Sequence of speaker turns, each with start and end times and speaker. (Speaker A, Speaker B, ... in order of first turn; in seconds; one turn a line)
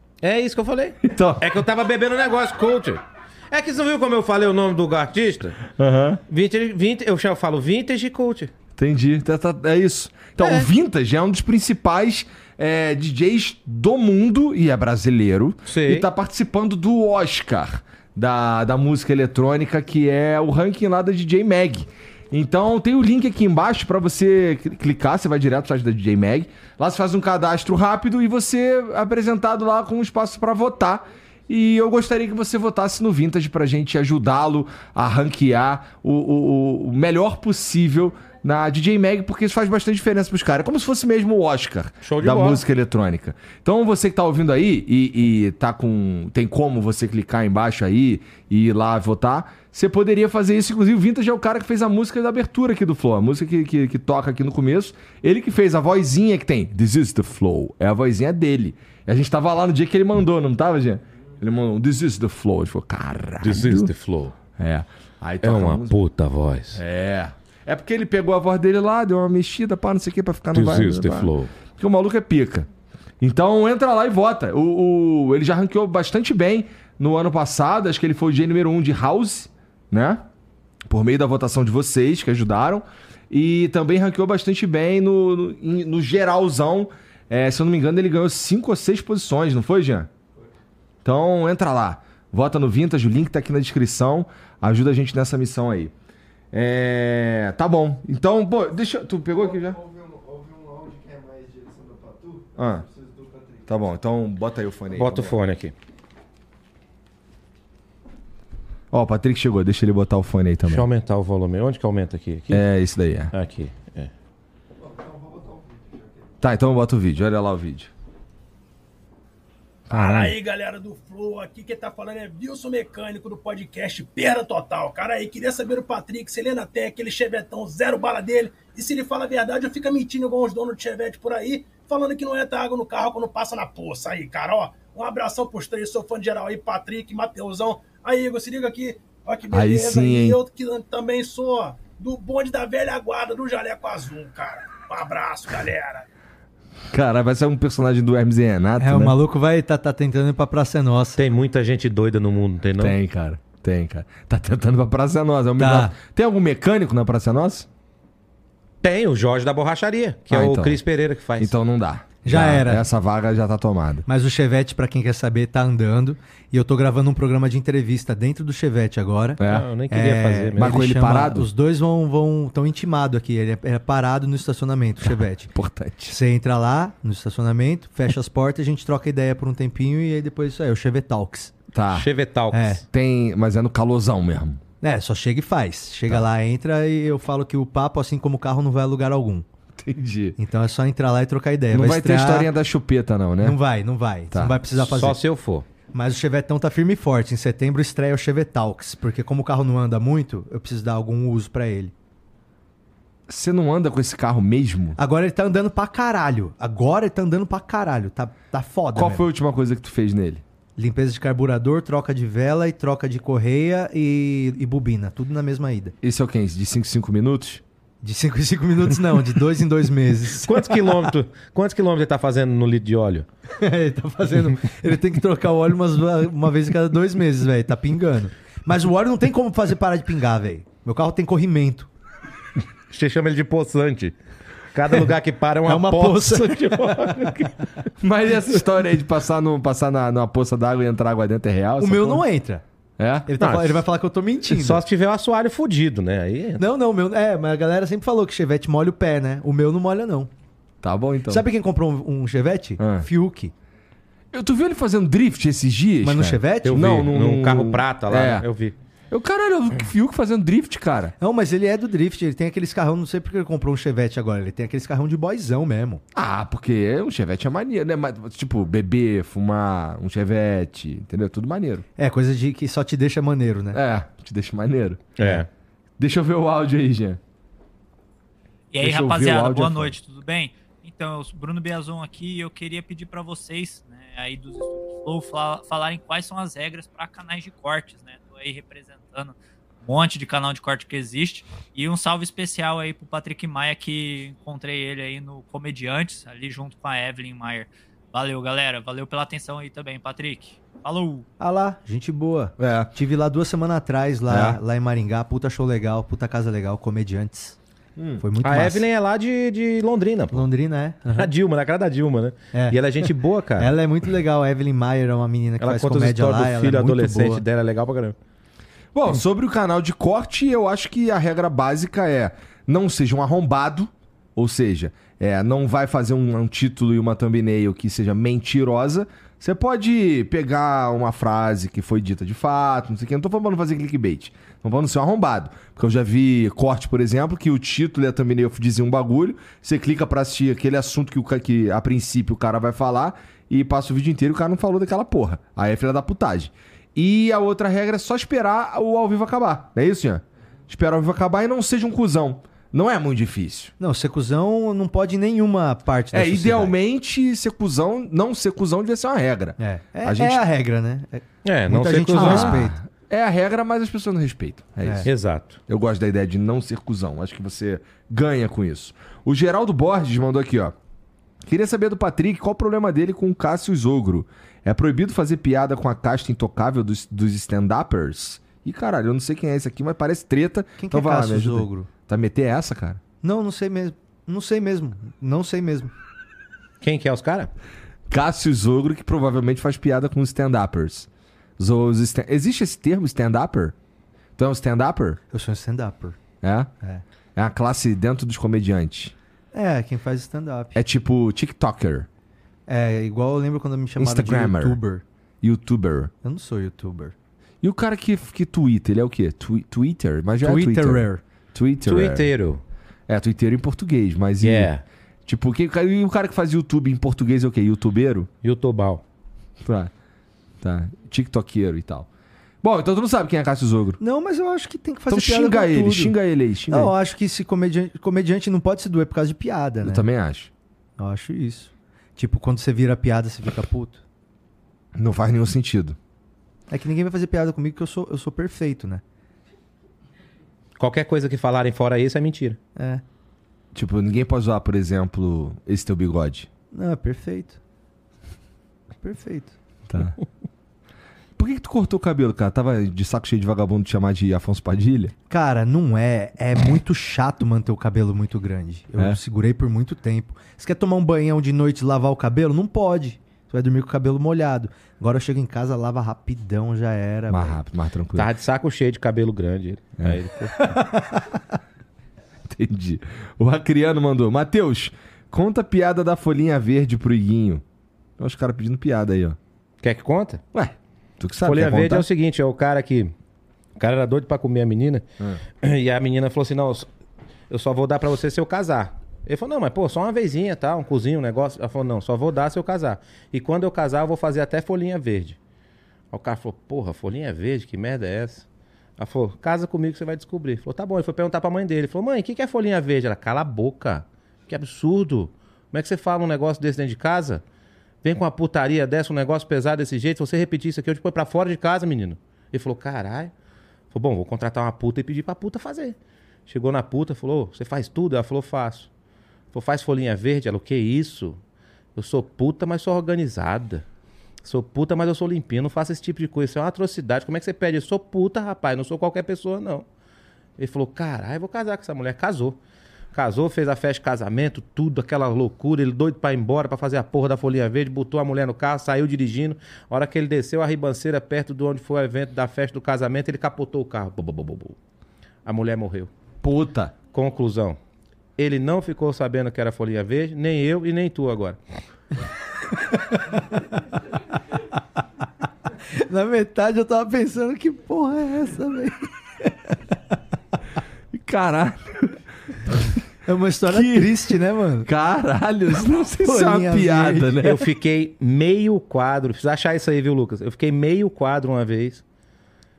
Speaker A: 0.2-5.6
Speaker B: 1.0-1.5
Speaker B: 5.7-6.2
Speaker A: 6.3-8.5
Speaker B: 8.8-63.9
Speaker A: 10.4-10.7
Speaker A: 15.7-16.1
Speaker A: 42.0-42.6
Speaker A: 63.4-64.3
Speaker B: 64.6-66.0
Speaker A: 65.4-66.8
Speaker B: 66.7-72.7
Speaker A: 70.5-71.5
Speaker B: 73.2-80.3
Speaker B: 80.9-90.1
Speaker B: 91.0-95.9
Speaker B: 96.5-99.8
Speaker C: 99.3-103.8
Speaker B: 102.6-102.9
Speaker B: 103.7-105.4
Speaker A: 105.0-105.7
Speaker B: 108.9-110.9
Speaker A: 110.7-112.7
Speaker B: 112.5-113.3
Speaker A: 113.3-114.1
Speaker C: 114.8-116.3
Speaker B: 116.4-117.9
Speaker B: 119.9-120.4
Speaker D: 119.9-146.1
Speaker B: 139.5-140.4
Speaker B: 146.9-149.2
Speaker E: 148.8-151.2
Speaker A: 151.2-153.0
Speaker B: 152.8-157.7
Speaker E: 155.6-155.9
Speaker A: 158.8-161.5
Speaker B: 160.3-160.8
Speaker B: 161.4-164.1
Speaker E: 162.2-162.9
Speaker E: 164.1-175.5
Speaker B: 169.4-169.7
Speaker A: 169.5-170.8
Speaker B: 170.6-171.5
Speaker B: 175.1-176.2
Speaker E: 176.1-181.5
Speaker B: 181.7-182.1
Speaker A: 181.9-182.8
Speaker E: 182.5-182.8
Speaker B: 182.9-184.6
Speaker E: 184.8-189.4
Speaker B: 189.8-190.4
Speaker E: 190.4-192.5
Speaker B: 191.7-193.6
Speaker E: 193.4-195.2
Speaker B: 194.3-194.6
Speaker A: 194.8-195.7
Speaker E: 195.9-201.9
Speaker B: 203.3-205.0
Speaker E: 205.0-209.2
Speaker B: 208.9-210.4
Speaker E: 210.8-215.9
Speaker B: 216.0-217.6
Speaker E: 218.0-221.1
Speaker A: 220.4-223.3
Speaker E: 223.6-231.9
Speaker A: 232.9-234.2
Speaker A: 234.7-237.6
Speaker E: 235.7-237.5
Speaker B: 238.0-242.2
Speaker E: 241.8-242.6
Speaker B: 243.0-243.3
Speaker E: 243.3-244.8
Speaker A: 243.4-243.8
Speaker A: 244.5-246.6
Speaker E: 246.6-250.3
Speaker B: 250.8-251.4
Speaker E: 251.3-253.5
Speaker B: 252.8-253.1
Speaker B: 254.3-258.5
Speaker E: 256.0-257.0
Speaker A: 256.6-258.8
Speaker B: 259.1-261.1
Speaker E: 261.2-266.0
Speaker B: 266.1-271.8
Speaker E: 272.0-273.8
Speaker B: 273.7-275.2
Speaker A: 275.2-275.5
Speaker B: 276.0-277.2
Speaker F: 278.7-301.2
Speaker B: 278.8-280.0
Speaker E: 301.4-307.6
Speaker B: 302.6-302.9
Speaker B: 304.3-304.6
Speaker B: 308.0-308.2
Speaker E: 308.2-308.9
Speaker A: 308.4-310.4
Speaker E: 310.3-311.3
Speaker A: 311.1-313.7
Speaker E: 312.5-313.1
Speaker E: 313.6-317.4
Speaker A: 315.6-318.2
Speaker B: 318.9-353.7
Speaker E: 353.8-356.8
Speaker B: 356.1-360.4
Speaker E: 359.6-362.8
Speaker A: 361.4-362.6
Speaker B: 362.1-365.1
Speaker A: 365.0-365.6
Speaker B: 365.7-370.8
Speaker B: 371.4-383.0
Speaker E: 380.8-381.9
Speaker E: 383.2-385.9
Speaker A: 386.8-387.5
Speaker B: 388.1-393.8
Speaker B: 394.4-395.2
Speaker E: 395.3-396.2
Speaker B: 396.4-396.7
Speaker B: 397.4-399.1
Speaker E: 399.5-400.8
Speaker B: 400.8-402.1
Speaker E: 402.7-405.0
Speaker B: 404.0-404.8
Speaker B: 405.4-406.1
Speaker E: 406.2-407.1
Speaker B: 407.6-412.3
Speaker E: 410.4-411.2
Speaker A: 411.9-412.6
Speaker B: 413.1-414.7
Speaker A: 414.4-414.8
Speaker B: 415.3-418.3
Speaker A: 418.4-419.0
Speaker B: 419.6-419.9
Speaker B: 420.6-422.1
Speaker B: 422.6-424.0
Speaker E: 424.0-426.1
Speaker B: 425.1-426.9
Speaker E: 426.7-430.1
Speaker B: 429.8-430.5
Speaker E: 431.0-434.0
Speaker B: 435.0-436.0
Speaker E: 436.7-439.0
Speaker A: 440.8-442.6
Speaker E: 442.8-443.0
Speaker B: 443.7-446.5
Speaker E: 446.7-447.6
Speaker E: 449.0-449.6
Speaker B: 449.9-450.2
Speaker B: 451.4-455.1
Speaker E: 455.3-467.6
Speaker B: 467.3-468.3
Speaker A: 468.1-470.6
Speaker E: 470.6-471.4
Speaker B: 472.5-477.6
Speaker B: 478.2-479.4
Speaker A: 479.8-480.4
Speaker B: 480.5-482.1
Speaker A: 481.4-483.1
Speaker A: 483.8-485.1
Speaker A: 485.6-486.9
Speaker A: 487.5-495.4
Speaker A: 496.1-498.5
Speaker A: 499.0-507.4
Speaker A: 508.0-513.3
Speaker A: 513.9-518.9
Speaker A: 519.5-521.4
Speaker A: 522.0-523.8
Speaker A: 524.4-529.9
Speaker A: 530.6-532.6
Speaker A: 533.1-544.8
Speaker A: 545.5-546.1
Speaker B: 546.4-546.9
Speaker A: 547.1-547.8
Speaker A: 548.4-551.6
Speaker E: 553.0-553.8
Speaker E: 555.9-559.7
Speaker B: 561.1-562.9
Speaker E: 563.3-564.9
Speaker B: 563.7-567.6
Speaker E: 566.2-567.4
Speaker A: 567.4-572.0